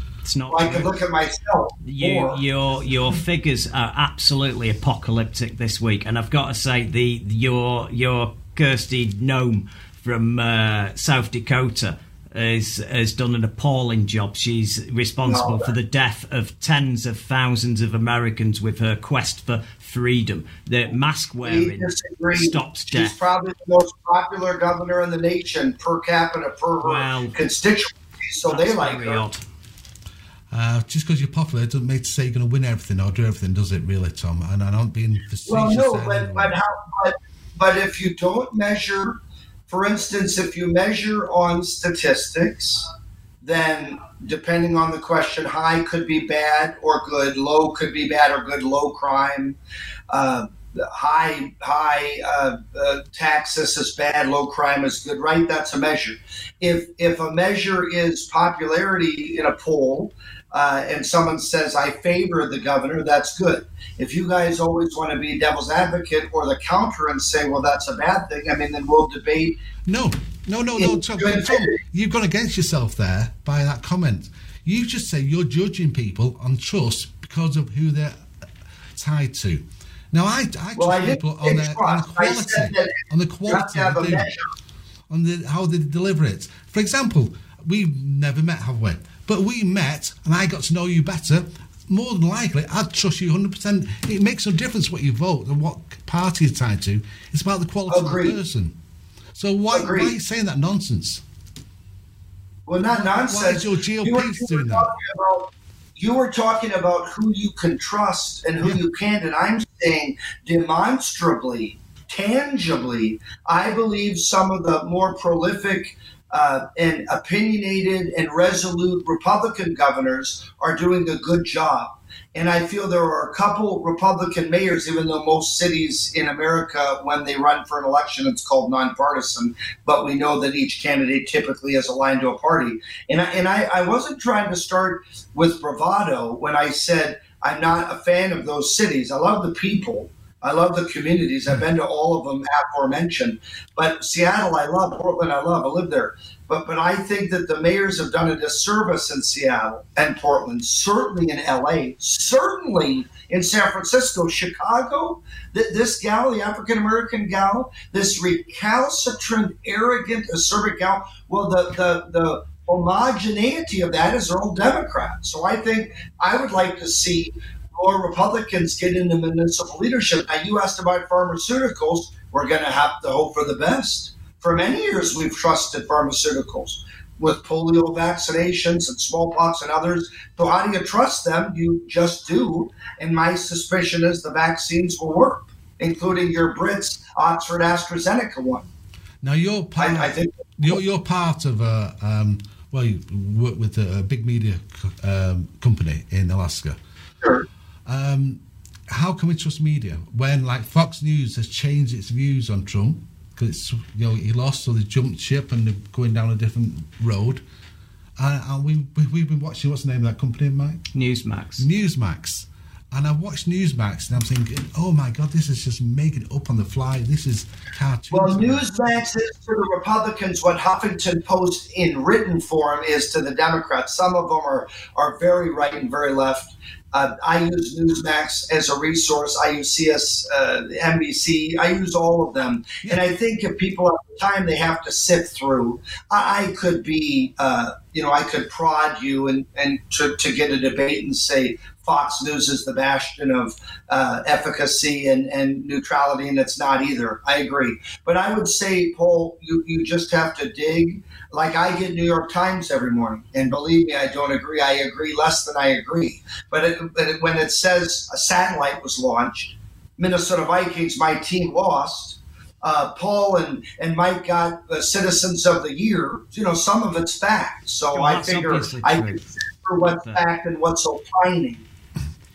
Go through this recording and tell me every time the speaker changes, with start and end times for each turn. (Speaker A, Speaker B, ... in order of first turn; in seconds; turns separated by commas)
Speaker A: 0.2-0.9, Speaker B: 0.5-2.4, Speaker A: 1.8-23.2, Speaker B: 15.2-15.7, Speaker B: 21.4-29.2, Speaker A: 26.8-27.4, Speaker A: 28.5-29.4, Speaker C: 30.5-36.6, Speaker B: 35.5-39.2, Speaker B: 39.7-42.9, Speaker B: 43.4-49.6, Speaker B: 50.1-69.6, Speaker C: 69.9-78.2, Speaker B: 70.8-71.8, Speaker C: 79.0-84.3, Speaker B: 80.8-84.5, Speaker C: 85.1-98.8, Speaker B: 97.9-98.4, Speaker C: 99.3-101.2, Speaker B: 99.7-100.1, Speaker B: 102.7-188.7, Speaker C: 102.9-104.9, Speaker C: 189.2-196.8, Speaker B: 189.8-190.8, Speaker B: 197.2-197.5, Speaker C: 197.9-207.4, Speaker C: 208.2-210.8, Speaker A: 210.9-211.7, Speaker C: 211.6-218.8, Speaker B: 218.1-271.7, Speaker A: 267.9-269.2, Speaker A: 269.9-270.3